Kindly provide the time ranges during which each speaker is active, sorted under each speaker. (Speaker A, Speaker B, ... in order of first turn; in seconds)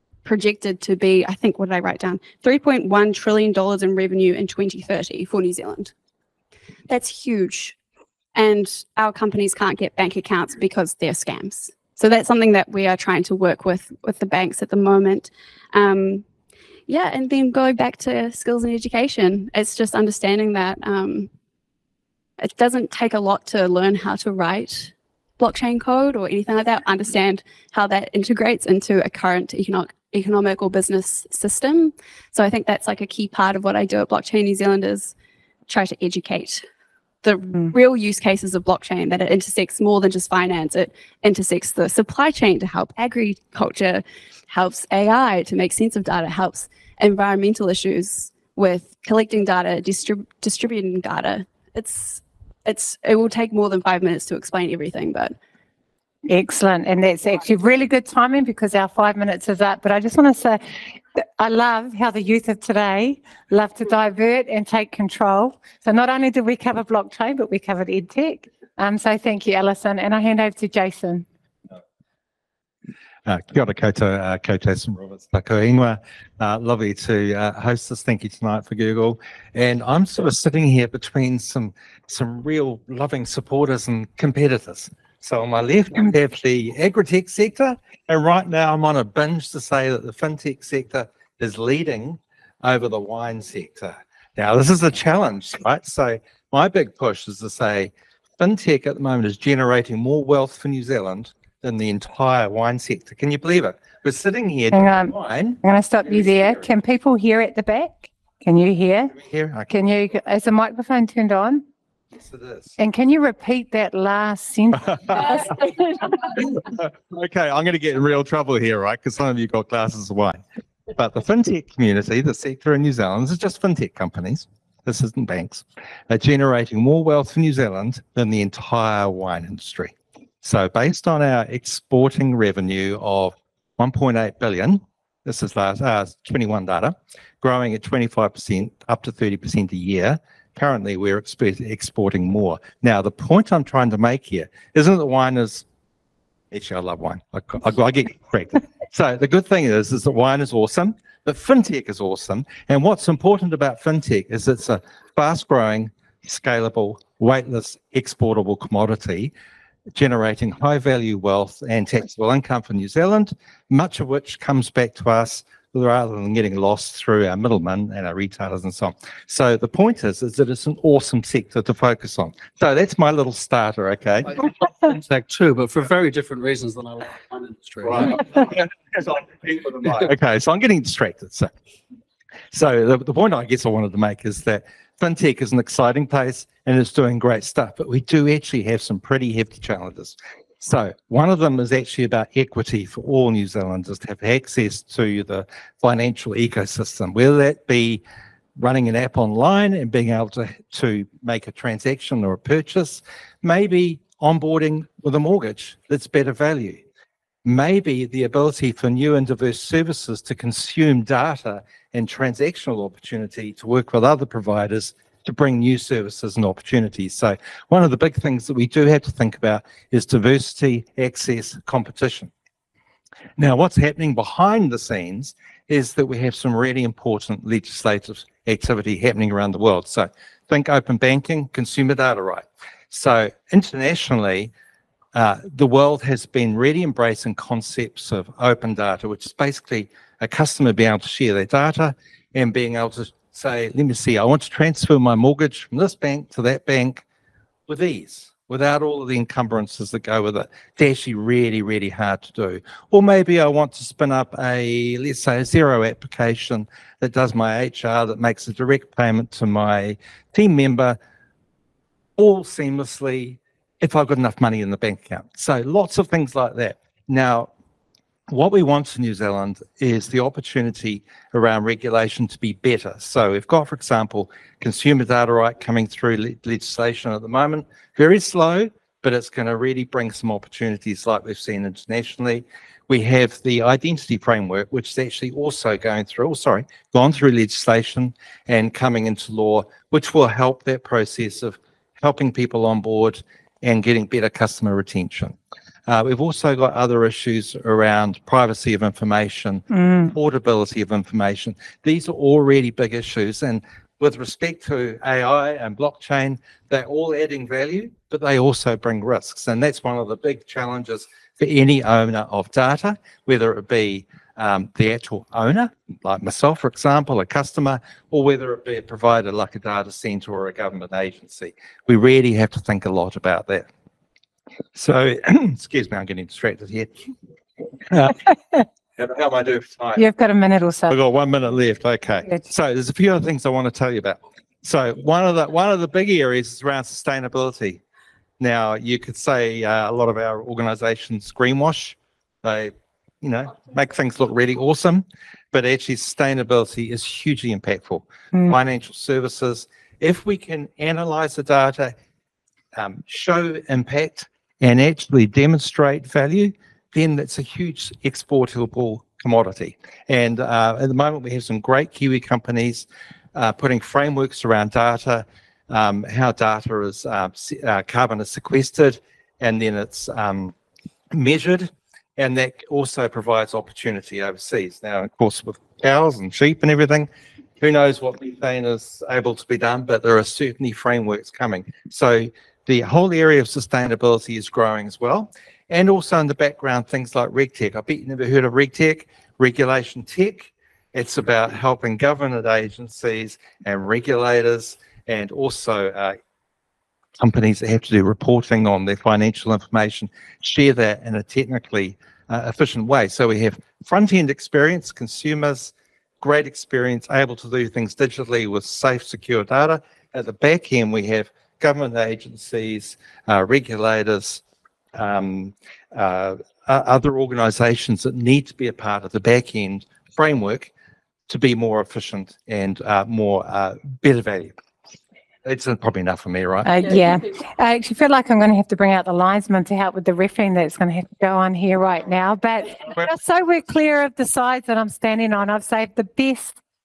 Speaker A: 0.2-5.9, 6.9-7.8, 8.3-16.2, 16.9-21.3, 22.4-35.1, 35.7-36.6, 37.2-55.4
Speaker B: 56.3-60.6, 61.1-71.2, 104.7-109.1, 109.7-111.6, 112.8-115.7, 299.7-300.1, 330.0-330.9, 426.6-436.6
Speaker C: 73.2-105.6, 109.1-109.7, 112.2-112.7, 115.1-115.4, 116.4-120.4, 120.9-145.6, 146.5-159.3, 159.9-174.4, 177.9-181.5, 182.5-198.0, 198.6-206.8, 207.4-222.3, 223.4-234.5, 235.1-247.0, 247.7-261.0, 262.2-267.5, 268.3-323.6, 324.7-326.9, 327.8-328.2, 329.0-330.0, 330.9-337.8, 338.4-351.9, 352.7-370.5, 371.1-377.1, 377.6-396.2, 397.2-414.4, 414.9-420.7, 421.3-424.5, 425.4-427.0
Speaker D: 174.9-178.3